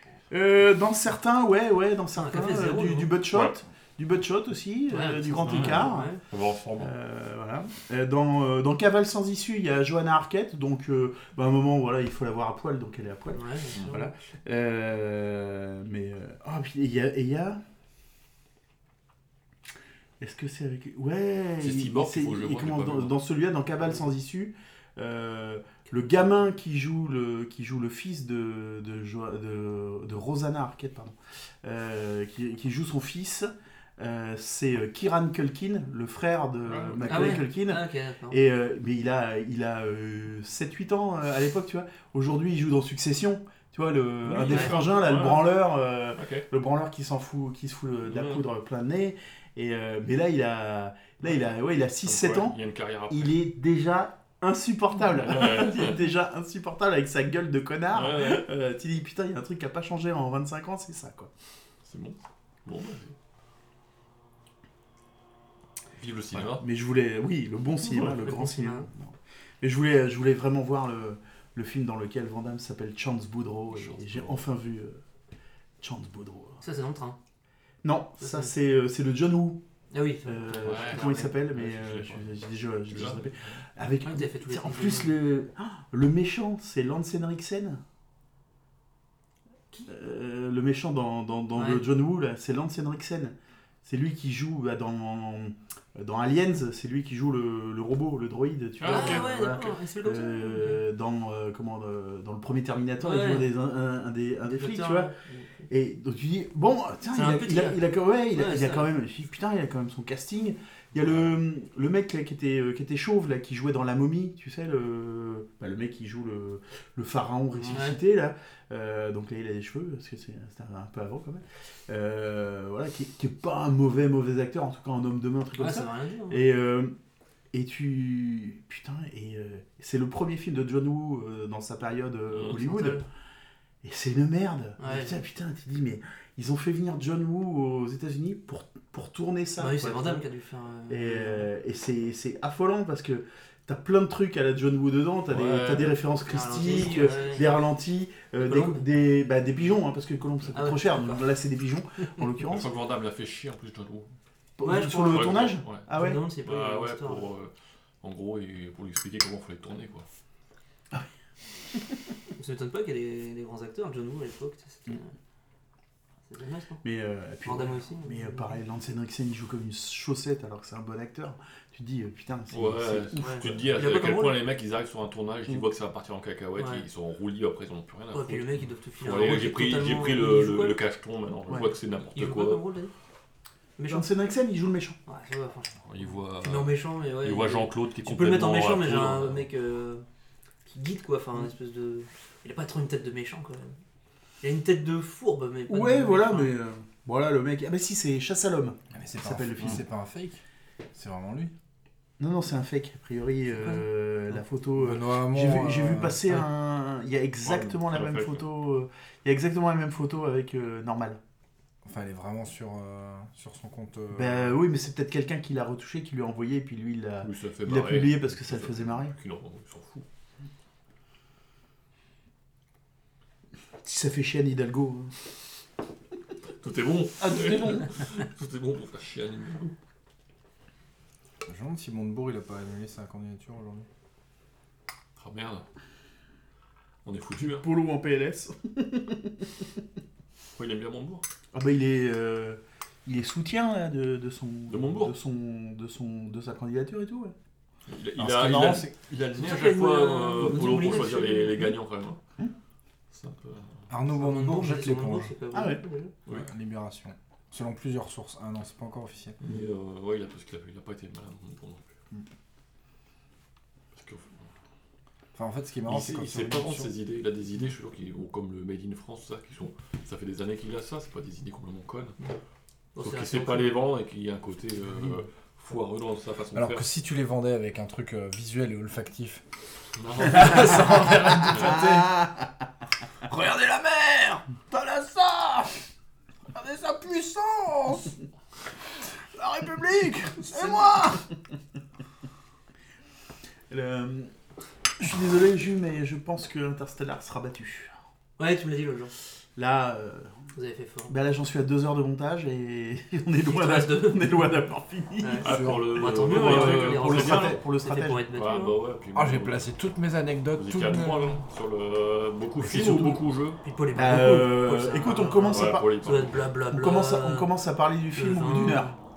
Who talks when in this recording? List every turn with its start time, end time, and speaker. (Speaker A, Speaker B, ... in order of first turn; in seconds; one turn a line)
Speaker A: 0.3-6.1
Speaker B: 2.1-3.2
Speaker B: 4.9-6.2
Speaker C: 5.5-6.9
Speaker A: 6.8-17.6
Speaker B: 13.3-14.1
Speaker A: 20.2-52.6
Speaker C: 21.6-23.2
Speaker C: 36.7-37.4
Speaker B: 37.0-38.4
Speaker C: 44.2-46.5
Speaker B: 44.4-44.8
Speaker C: 48.1-48.5
Speaker C: 51.2-53.4
Speaker A: 53.1-61.3
Speaker C: 55.1-56.1
Speaker C: 57.9-58.5
Speaker C: 61.9-63.1
Speaker C: 66.0-66.6
Speaker A: 66.3-75.0
Speaker B: 68.0-68.9
Speaker C: 73.7-74.4
Speaker A: 75.8-76.6
Speaker B: 76.6-77.2
Speaker A: 77.8-79.6
Speaker B: 78.2-78.5
Speaker B: 79.9-81.3
Speaker A: 80.2-87.8
Speaker C: 80.6-83.6
Speaker B: 84.0-85.2
Speaker A: 89.9-93.3
Speaker B: 91.5-91.8
Speaker A: 93.8-105.1
Speaker C: 98.8-99.3
Speaker B: 98.8-100.8
Speaker B: 103.0-103.5
Speaker B: 104.5-105.5
Speaker A: 105.7-126.9
Speaker B: 107.1-108.9
Speaker C: 111.0-111.3
Speaker B: 117.6-118.0
Speaker B: 125.6-126.4
Speaker A: 127.5-133.0
Speaker C: 132.3-132.6
Speaker B: 132.5-133.0
Speaker A: 133.8-140.2
Speaker B: 134.8-135.2
Speaker B: 139.6-141.5
Speaker A: 140.9-152.7
Speaker C: 145.3-146.0
Speaker B: 146.1-147.7
Speaker B: 148.4-148.9
Speaker B: 150.5-151.3
Speaker C: 152.4-154.1
Speaker A: 154.6-156.2
Speaker B: 154.6-157.3
Speaker C: 155.1-155.9
Speaker C: 156.4-160.1
Speaker B: 162.4-165.1
Speaker B: 166.3-166.8
Speaker A: 166.8-173.8
Speaker B: 167.4-168.6
Speaker C: 172.5-182.6
Speaker B: 173.2-174.4
Speaker B: 176.6-176.9
Speaker B: 178.1-180.8
Speaker B: 182.1-182.9
Speaker B: 183.8-184.1
Speaker A: 183.9-185.0
Speaker B: 185.1-190.1
Speaker C: 185.8-189.5
Speaker B: 190.7-193.7
Speaker B: 194.4-196.6
Speaker A: 195.7-199.8
Speaker D: 198.9-200.4
Speaker D: 200.9-201.5
Speaker A: 202.2-211.2
Speaker B: 203.6-203.8
Speaker D: 204.8-206.4
Speaker C: 207.4-208.5
Speaker D: 211.8-214.6
Speaker A: 214.1-219.2
Speaker C: 217.2-220.1
Speaker A: 223.8-225.1
Speaker C: 226.6-229.7
Speaker A: 227.2-227.8
Speaker D: 231.4-233.9
Speaker C: 235.2-235.7
Speaker C: 237.1-237.6
Speaker A: 237.4-239.5
Speaker C: 240.6-241.2
Speaker A: 241.5-247.3
Speaker C: 244.7-245.1
Speaker C: 247.9-252.2
Speaker A: 248.2-248.9
Speaker B: 249.3-251.7
Speaker A: 250.4-251.1
Speaker C: 253.1-253.7
Speaker D: 253.9-255.3
Speaker B: 254.1-256.1
Speaker A: 255.5-255.8
Speaker D: 256.3-259.4
Speaker C: 259.4-261.9
Speaker C: 263.9-264.5
Speaker D: 265.3-266.9
Speaker C: 265.9-272.1
Speaker B: 272.9-273.9
Speaker C: 273.0-276.9
Speaker D: 276.5-279.4
Speaker C: 280.0-281.6
Speaker D: 280.2-282.2
Speaker A: 281.5-282.4
Speaker D: 283.3-285.7
Speaker D: 286.5-288.1
Speaker A: 289.4-291.2
Speaker D: 289.5-291.2
Speaker A: 293.7-294.3
Speaker A: 295.0-297.9
Speaker B: 298.4-299.1
Speaker A: 299.6-300.3
Speaker B: 300.5-301.1
Speaker A: 301.1-305.6
Speaker B: 303.4-304.4
Speaker B: 305.2-308.8
Speaker C: 305.4-307.6
Speaker D: 305.4-306.0
Speaker A: 306.1-308.2
Speaker C: 308.3-309.7
Speaker D: 309.1-311.4
Speaker C: 310.5-313.6
Speaker A: 312.6-313.2
Speaker D: 312.6-313.1
Speaker B: 313.6-317.5
Speaker A: 313.9-316.0
Speaker C: 315.4-316.5
Speaker A: 316.7-318.9
Speaker B: 318.1-319.0